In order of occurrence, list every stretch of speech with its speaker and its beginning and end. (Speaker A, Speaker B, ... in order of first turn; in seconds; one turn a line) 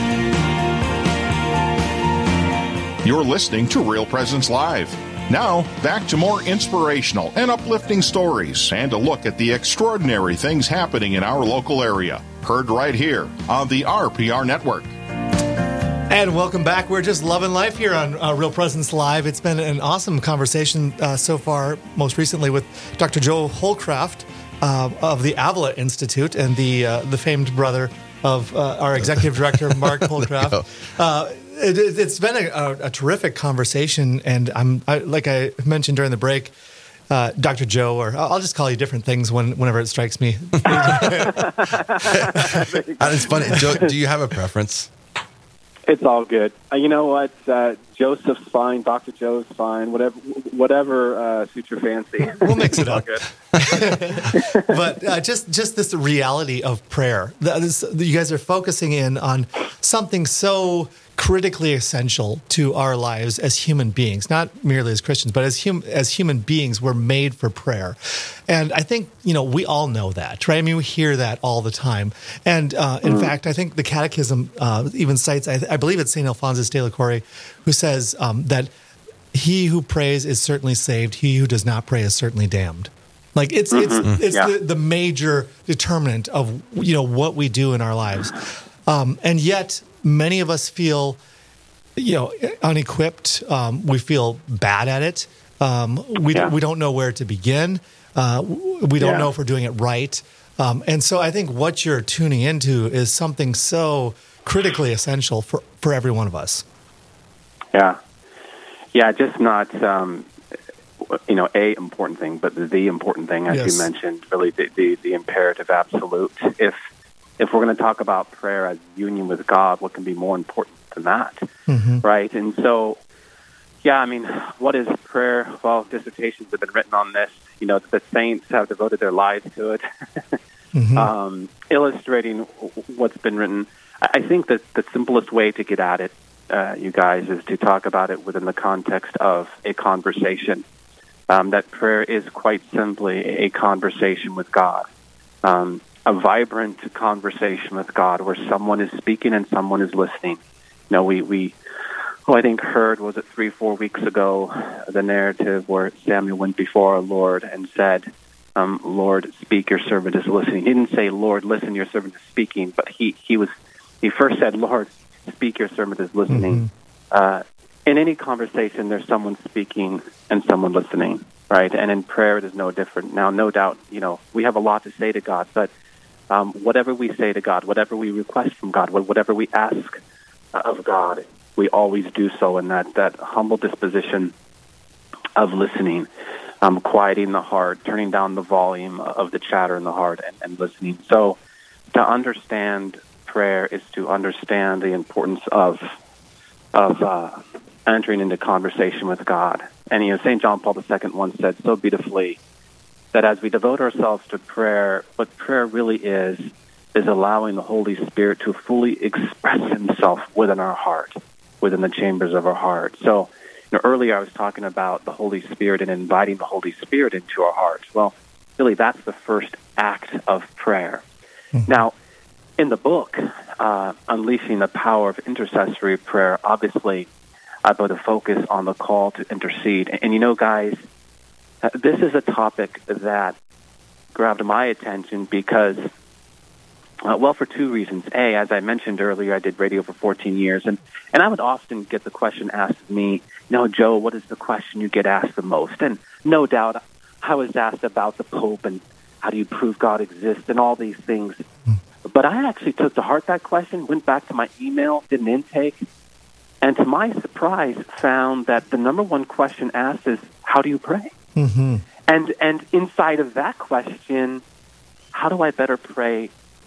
Speaker A: 3.0-14.9
Speaker B: 16.1-36.5
Speaker C: 30.2-30.6
Speaker B: 37.1-41.5
Speaker D: 40.9-43.9
Speaker B: 42.4-42.6
Speaker C: 43.0-44.9
Speaker D: 45.9-53.2
Speaker B: 52.4-53.1
Speaker B: 53.6-78.7
Speaker D: 54.3-54.6
Speaker D: 73.0-73.3
Speaker B: 79.3-91.2
Speaker D: 83.7-84.5
Speaker B: 92.0-106.6
Speaker D: 99.0-99.3
Speaker D: 107.7-108.0
Speaker D: 108.9-110.3
Speaker D: 111.1-116.8
Speaker B: 113.5-113.9
Speaker D: 117.4-121.5
Speaker B: 121.7-122.0
Speaker D: 122.0-123.0
Speaker D: 123.8-130.4
Speaker B: 130.7-131.1
Speaker D: 130.9-140.6
Speaker D: 141.3-144.8
Speaker D: 145.4-151.6
Speaker D: 152.3-175.7
Speaker B: 166.3-166.7
Speaker D: 176.3-180.0
Speaker D: 180.5-184.3
Speaker D: 185.4-186.1
Speaker D: 186.6-191.4
Speaker D: 191.9-195.8
Speaker D: 196.7-202.4
Speaker D: 203.1-221.0
Speaker D: 221.7-221.9
Speaker D: 222.6-227.1
Speaker D: 227.6-230.8
Speaker D: 231.6-233.3
Speaker D: 234.1-235.9
Speaker D: 237.0-251.4
Speaker D: 252.1-255.8
Speaker D: 256.6-261.1
Speaker B: 261.4-261.8
Speaker D: 262.1-264.4
Speaker D: 265.1-266.3